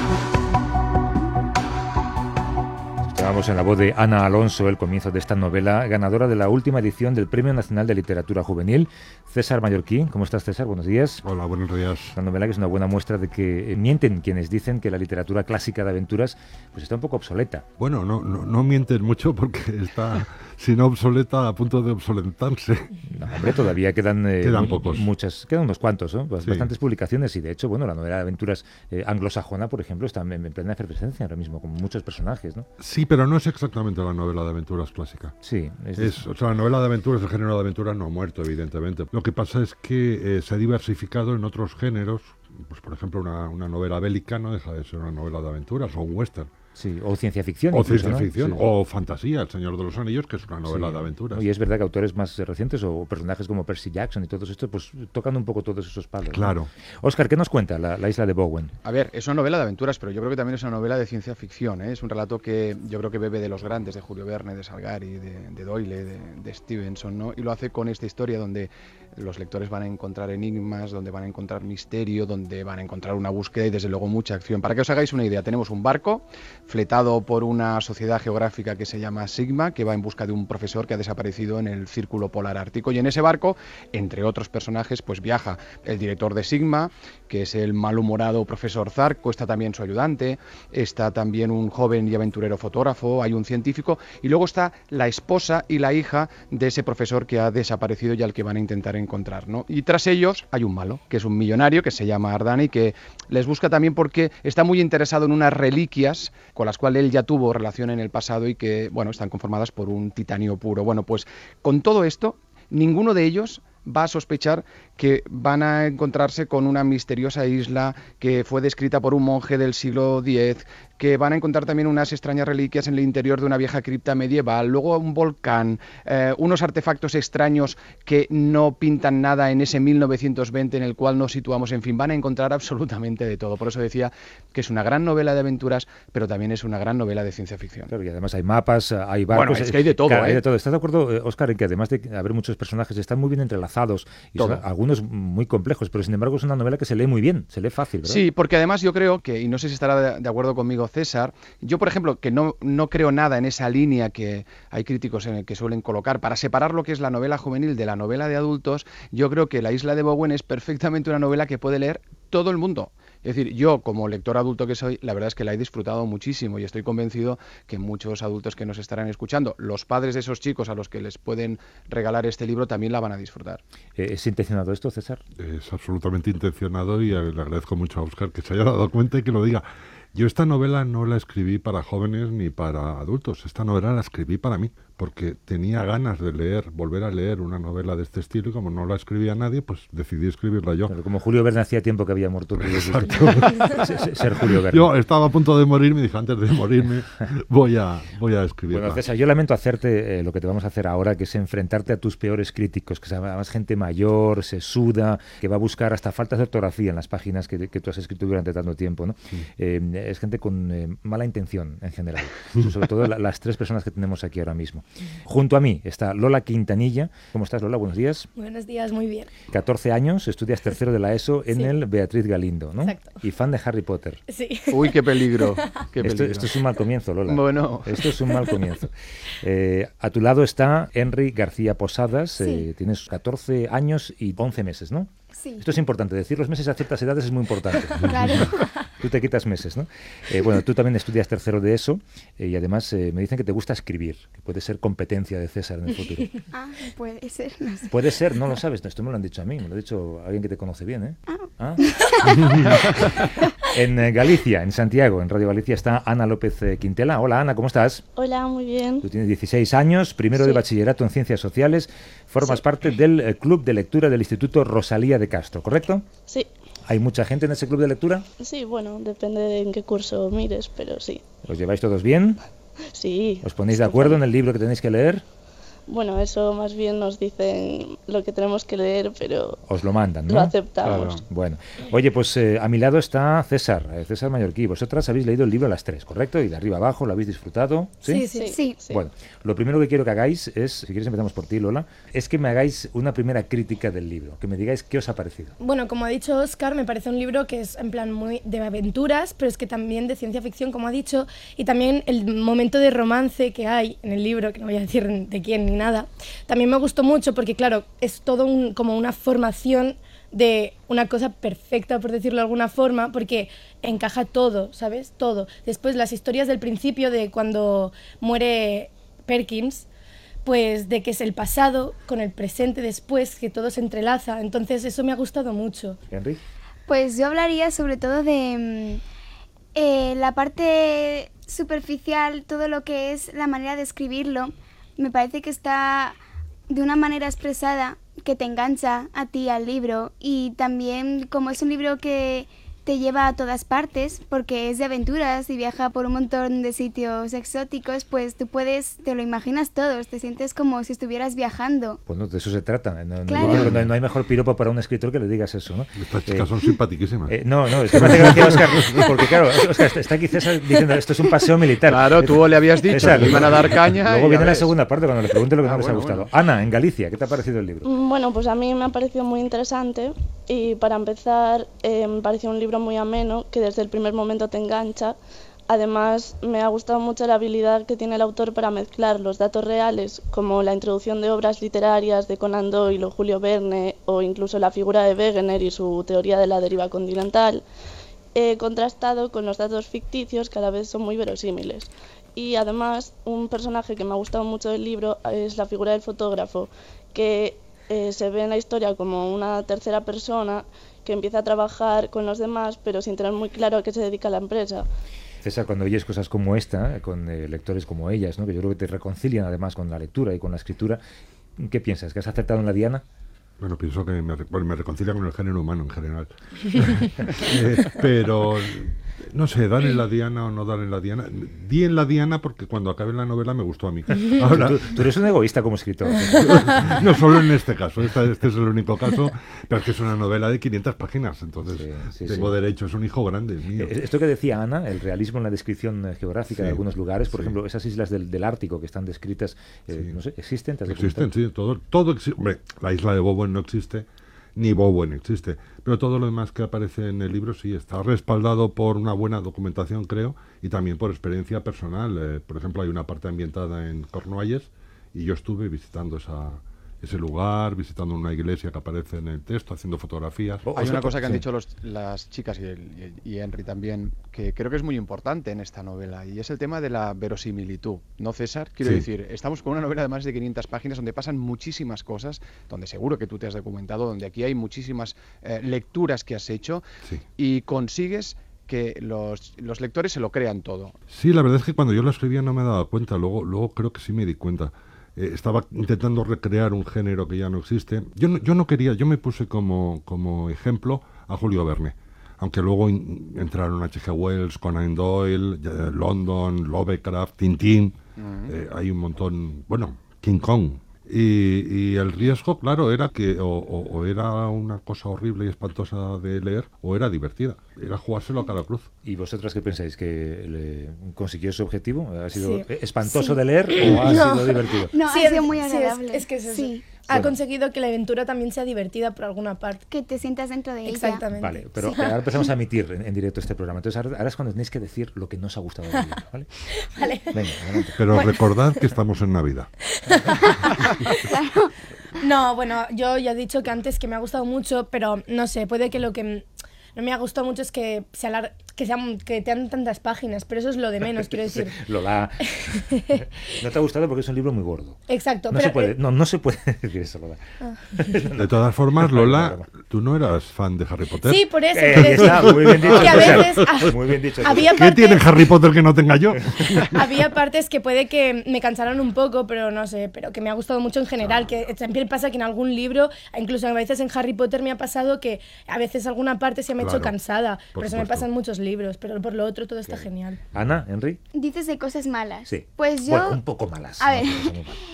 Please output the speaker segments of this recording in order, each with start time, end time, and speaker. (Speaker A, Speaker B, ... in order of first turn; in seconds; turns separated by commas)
Speaker A: 3.0-11.2, Speaker B: 11.2-12.1, Speaker A: 12.1-17.6, Speaker B: 17.8-23.6, Speaker A: 23.1-32.7, Speaker B: 24.4-25.1, Speaker B: 26.4-26.7, Speaker B: 32.8-35.3, Speaker A: 35.4-36.2, Speaker B: 36.0-46.5, Speaker A: 46.8-48.6, Speaker B: 47.7-51.5, Speaker A: 50.6-58.7, Speaker B: 56.3-56.7, Speaker C: 58.8-137.9, Speaker A: 137.9-148.2, Speaker C: 139.3-140.4, Speaker C: 144.4-144.6, Speaker C: 148.0-173.6, Speaker A: 174.0-175.2, Speaker B: 175.4-190.9, Speaker A: 190.9-194.9, Speaker B: 192.6-199.0, Speaker A: 198.7-218.3, Speaker D: 218.3-219.3, Speaker A: 219.5-224.2, Speaker D: 222.8-223.2, Speaker D: 224.3-225.7, Speaker C: 224.7-226.5, Speaker A: 226.0-246.3, Speaker C: 227.2-228.0, Speaker E: 232.4-232.7, Speaker E: 235.3-235.7, Speaker E: 238.0-238.6, Speaker E: 246.5-247.9, Speaker A: 247.9-251.9, Speaker E: 251.8-252.5, Speaker A: 252.6-253.1, Speaker A: 253.7-258.0, Speaker F: 258.2-259.0, Speaker A: 259.0-266.0, Speaker F: 260.3-260.6, Speaker A: 266.9-268.2, Speaker F: 268.4-271.2, Speaker A: 271.5-272.4, Speaker F: 272.9-274.2, Speaker A: 273.4-275.2, Speaker F: 275.9-279.6, Speaker A: 279.6-288.2, Speaker F: 280.3-281.2, Speaker C: 280.8-281.2, Speaker D: 288.0-288.5, Speaker F: 288.3-289.0, Speaker A: 288.9-295.5, Speaker D: 295.6-319.9, Speaker D: 320.4-326.0, Speaker A: 326.1-326.4, Speaker E: 326.9-329.0, Speaker E: 329.7-336.2, Speaker E: 336.7-352.0, Speaker A: 352.1-356.5, Speaker E: 353.3-353.7, Speaker B: 356.0-359.1, Speaker A: 357.2-367.9, Speaker C: 361.9-364.7, Speaker C: 365.6-366.3, Speaker F: 367.8-375.2, Speaker F: 375.7-387.6, Speaker F: 388.3-404.9, Speaker A: 405.4-411.0, Speaker A: 411.6-413.0, Speaker B: 413.6-425.1, Speaker A: 424.4-426.9, Speaker B: 426.3-433.9, Speaker A: 431.6-432.6, Speaker A: 433.8-441.3, Speaker B: 436.5-437.6, Speaker B: 440.9-460.7, Speaker A: 460.6-461.4, Speaker C: 460.7-476.8, Speaker C: 477.3-480.9, Speaker B: 481.1-508.9, Speaker C: 498.2-498.5, Speaker A: 509.0-514.9, Speaker D: 512.3-514.5, Speaker E: 514.9-516.9, Speaker D: 515.1-519.8, Speaker A: 517.1-517.4, Speaker E: 519.9-521.2, Speaker D: 520.8-522.2, Speaker A: 521.4-526.5, Speaker D: 526.9-527.3, Speaker A: 527.3-527.9, Speaker B: 528.0-529.7, Speaker D: 528.1-528.8, Speaker D: 530.1-531.2, Speaker E: 531.3-531.7, Speaker D: 532.2-541.8, Speaker A: 541.2-545.0, Speaker D: 542.7-543.2, Speaker D: 545.1-545.9, Speaker A: 545.5-547.4, Speaker A: 547.9-549.7, Speaker B: 548.4-551.5, Speaker D: 551.2-555.3, Speaker A: 551.7-554.7, Speaker B: 552.1-553.6, Speaker B: 554.7-557.0, Speaker D: 556.9-570.4, Speaker B: 566.8-567.1, Speaker B: 567.7-568.3, Speaker A: 569.9-571.2, Speaker B: 570.5-570.8, Speaker E: 571.3-573.4, Speaker A: 572.5-574.8, Speaker E: 574.0-574.5